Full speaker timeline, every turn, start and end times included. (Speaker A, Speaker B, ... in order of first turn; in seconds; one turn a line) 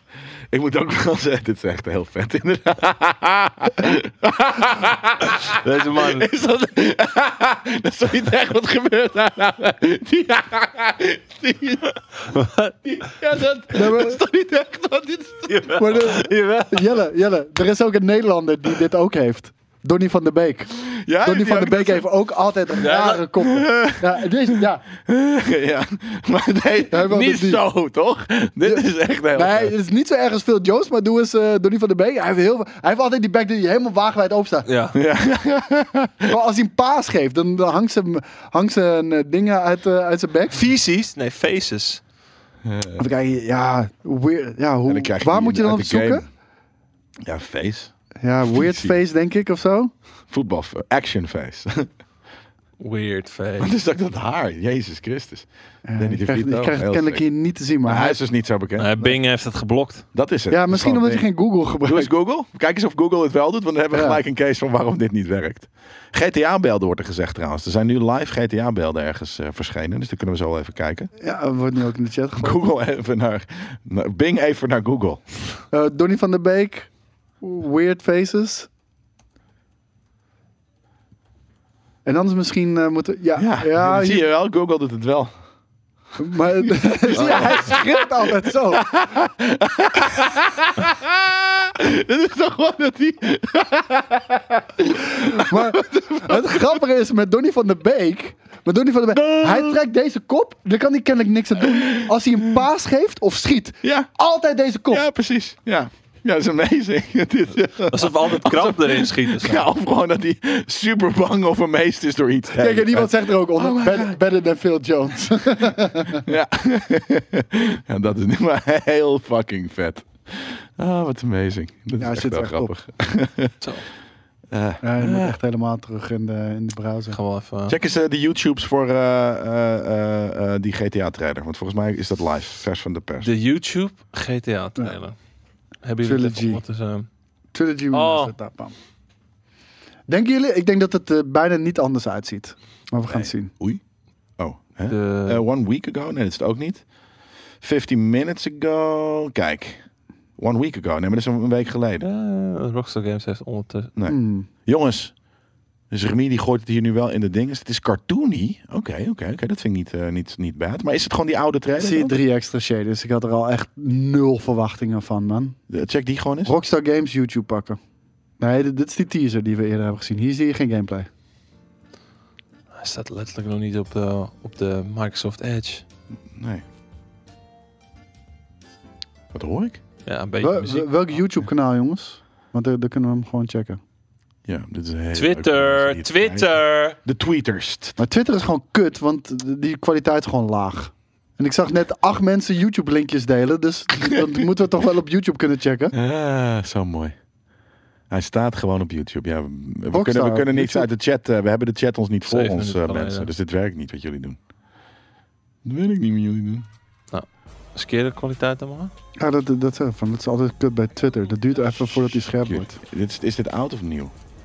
Speaker A: 0.5-12.2
Speaker B: 5.5-6.3
Speaker B: 12.3-12.7
Speaker A: 12.8-15.7
Speaker C: 13.7-14.2
Speaker B: 15.5-16.9
Speaker C: 15.8-24.9
Speaker A: 20.9-22.1
Speaker B: 22.8-23.2
Speaker A: 23.4-29.7
Speaker C: 26.9-27.6
Speaker C: 28.6-34.7
Speaker B: 34.6-35.0
Speaker A: 34.9-36.4
Speaker C: 36.3-40.6
Speaker B: 40.5-42.0
Speaker A: 42.6-43.0
Speaker C: 43.0-46.2
Speaker A: 44.9-46.3
Speaker A: 47.2-47.9
Speaker C: 48.2-49.9
Speaker A: 48.4-49.0
Speaker A: 50.3-51.9
Speaker B: 52.8-53.7
Speaker A: 53.6-57.2
Speaker C: 55.9-58.2
Speaker A: 57.8-59.0
Speaker B: 58.8-60.0
Speaker A: 60.1-61.3
Speaker C: 60.5-62.1
Speaker A: 61.8-71.1
Speaker C: 63.9-64.2
Speaker C: 71.2-72.6
Speaker A: 72.3-75.2
Speaker C: 75.7-76.9
Speaker C: 77.4-78.7
Speaker C: 82.0-84.3
Speaker A: 83.3-85.3
Speaker C: 86.2-88.9
Speaker A: 86.6-96.8
Speaker C: 95.2-105.0
Speaker A: 99.1-99.8
Speaker A: 101.6-102.6
Speaker A: 103.8-104.1
Speaker A: 104.9-114.2
Speaker B: 107.9-109.7
Speaker C: 112.5-116.2
Speaker A: 116.1-123.5
Speaker C: 122.0-122.7
Speaker A: 124.5-125.4
Speaker C: 124.8-127.2
Speaker B: 127.1-127.8
Speaker A: 127.7-133.3
Speaker B: 133.2-135.2
Speaker B: 135.8-137.1
Speaker C: 136.0-136.6
Speaker C: 137.5-138.7
Speaker B: 137.9-138.3
Speaker C: 140.1-143.5
Speaker A: 143.1-143.8
Speaker A: 144.4-146.8
Speaker B: 144.9-145.4
Speaker A: 147.6-149.8
Speaker A: 150.4-152.0
Speaker B: 152.0-153.9
Speaker A: 153.9-155.1
Speaker C: 154.1-154.5
Speaker A: 155.9-162.1
Speaker C: 161.8-165.6
Speaker A: 165.7-166.5
Speaker C: 166.4-167.8
Speaker C: 168.4-171.1
Speaker B: 172.7-175.8
Speaker A: 176.3-176.6
Speaker A: 179.3-179.8
Speaker B: 180.1-181.2
Speaker C: 180.4-183.8
Speaker A: 184.4-188.0
Speaker B: 185.1-187.0
Speaker C: 188.0-195.9
Speaker A: 195.9-197.1
Speaker A: 198.1-204.4
Speaker C: 199.9-200.9
Speaker B: 202.2-203.3
Speaker A: 205.6-206.7
Speaker B: 207.1-208.9
Speaker C: 209.2-212.8
Speaker A: 212.1-214.1